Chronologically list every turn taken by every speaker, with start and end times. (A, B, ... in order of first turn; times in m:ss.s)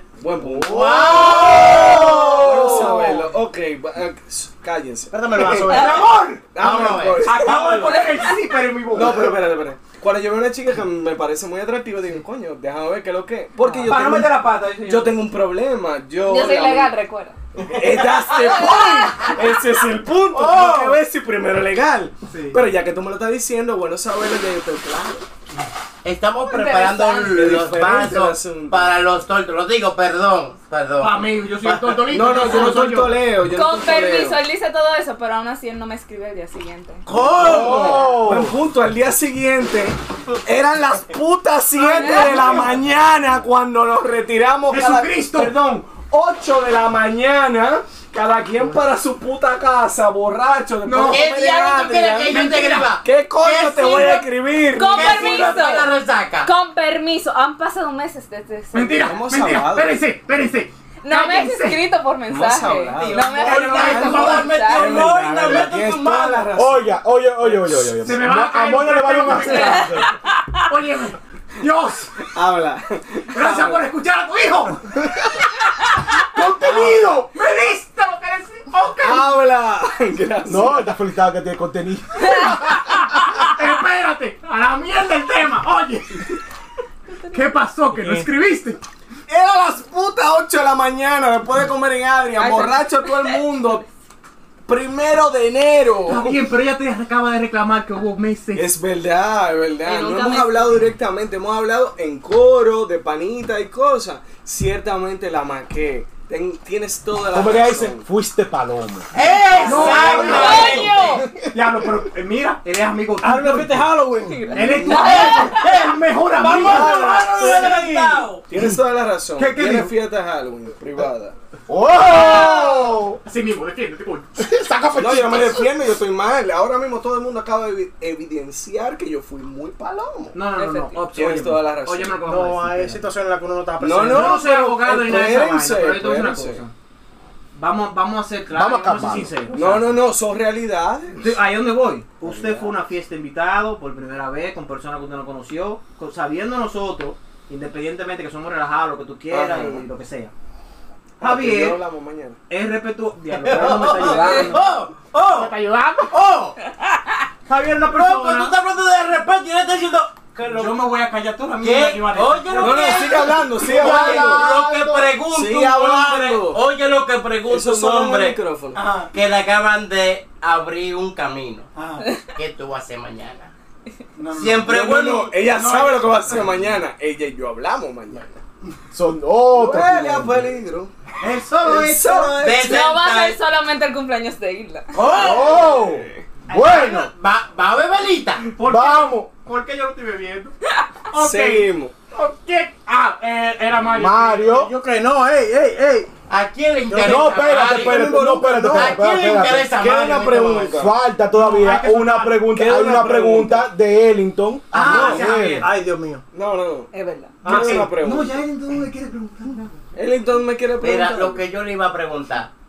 0:00.2-0:08.2 A
0:00.6-0:03.2 B
0:00.8-0:02.8 C
0:05.1-0:06.1 D
0:05.6-0:06.4 E
0:06.6-0:07.3 B
0:07.2-0:09.4 E
0:08.9-0:16.9 A
0:13.8-0:15.3 E
0:16.2-0:17.4 F
0:17.7-0:25.2 A
0:18.2-0:19.4 F
0:20.3-0:21.0 E
0:22.3-0:22.6 E
0:26.0-0:32.0 B
0:26.4-0:27.5 F
0:27.3-0:28.9 A
0:31.0-0:33.2 E
0:32.1-0:34.4 A
0:33.4-0:37.0 F
0:37.0-0:38.2 B
0:37.1-0:52.5 A
0:37.4-0:38.6 C
0:41.8-0:42.7 E
0:41.9-0:42.5 F
0:44.7-0:45.8 E
0:50.8-0:51.2 E
0:51.0-0:54.3 B
0:52.3-0:52.9 E
0:53.0-0:55.4 A
0:54.7-0:59.2 F
0:54.8-0:56.5 B
0:58.7-1:01.8 E
0:59.0-1:00.0 A
1:01.0-1:05.1 F
1:02.3-1:08.1 A
1:02.9-1:06.5 B
1:03.1-1:04.6 E
1:06.5-1:10.1 C
1:08.0-1:10.0 E
1:09.5-1:10.1 F
1:10.6-1:12.2 E
1:12.3-1:13.8 A
1:13.3-1:15.0 E
1:16.3-1:19.3 E
1:16.6-1:17.0 A
1:19.0-1:20.8 A
1:20.4-1:22.9 C
1:23.4-1:26.4 E
1:27.3-1:28.8 E
1:29.3-1:33.8 A
1:32.4-1:33.4 F
1:34.6-1:36.4 A
1:36.0-1:38.7 E
1:38.5-1:48.0 A
1:39.8-1:40.7 F
1:47.3-1:49.1 C
1:49.1-1:51.2 B
1:49.6-1:50.9 E
1:49.7-1:51.2 F
1:49.7-1:50.8 A
1:49.7-1:50.1 D
1:50.2-1:51.6 C
1:51.4-1:53.9 E
1:53.2-1:54.7 D
1:54.4-1:55.7 F
1:54.5-1:57.6 E
1:54.8-1:55.2 A
1:54.8-1:58.4 B
1:56.4-2:01.3 A
1:59.4-1:59.9 E
2:01.7-2:03.2 C
2:03.2-2:04.4 E
2:04.4-2:05.6 C
2:04.9-2:10.4 A
2:10.3-2:13.0 E
2:10.6-2:11.0 F
2:11.1-2:12.2 A
2:12.2-2:14.4 D
2:13.8-2:16.6 A
2:14.0-2:16.7 E
2:17.5-2:20.0 E
2:18.5-2:19.4 C
2:19.5-2:21.3 A
2:21.2-2:30.3 E
2:22.2-2:22.8 A
2:29.3-2:29.8 A
2:31.2-2:32.4 A
2:31.2-2:31.8 E
2:32.5-2:34.7 E
2:33.3-2:35.5 B
2:34.2-2:34.4 F
2:35.3-2:36.1 E
2:36.1-2:36.6 B
2:37.5-2:38.5 E
2:37.8-2:40.8 B
2:40.5-2:43.0 E
2:41.6-2:48.4 B
2:42.5-2:44.6 A
2:44.6-2:45.0 D
2:45.2-2:46.6 A
2:47.5-2:48.8 A
2:48.7-2:49.1 E
2:49.1-2:51.7 B
2:51.7-2:52.1 E
2:52.3-2:53.5 B
2:54.2-2:54.6 E
2:54.3-2:55.4 B
2:54.5-2:58.4 A
2:55.5-2:56.4 E
2:58.9-3:00.5 C
2:59.5-3:00.9 A
3:01.2-3:02.4 E
3:01.6-3:02.8 A
3:02.3-3:03.4 B
3:02.6-3:04.9 F
3:04.9-3:05.7 B
3:05.1-3:07.1 C
3:05.4-3:06.2 A
3:06.5-3:07.0 E
3:06.6-3:08.5 B
3:08.4-3:10.5 E
3:08.6-3:09.3 C
3:11.1-3:14.5 E
3:11.1-3:11.9 A
3:13.9-3:14.7 C
3:14.5-3:16.1 D
3:16.3-3:20.8 B
3:16.9-3:19.0 D
3:17.0-3:19.8 C
3:19.7-3:20.9 A
3:20.7-3:25.7 C
3:21.3-3:22.5 E
3:22.5-3:23.7 A
3:24.7-3:25.7 E
3:24.8-3:25.2 A
3:25.6-3:26.2 D
3:26.3-3:26.9 A
3:26.9-3:27.4 F
3:27.4-3:27.9 D
3:27.4-3:28.4 A
3:27.4-3:29.7 E
3:29.9-3:31.4 A
3:30.8-3:32.5 B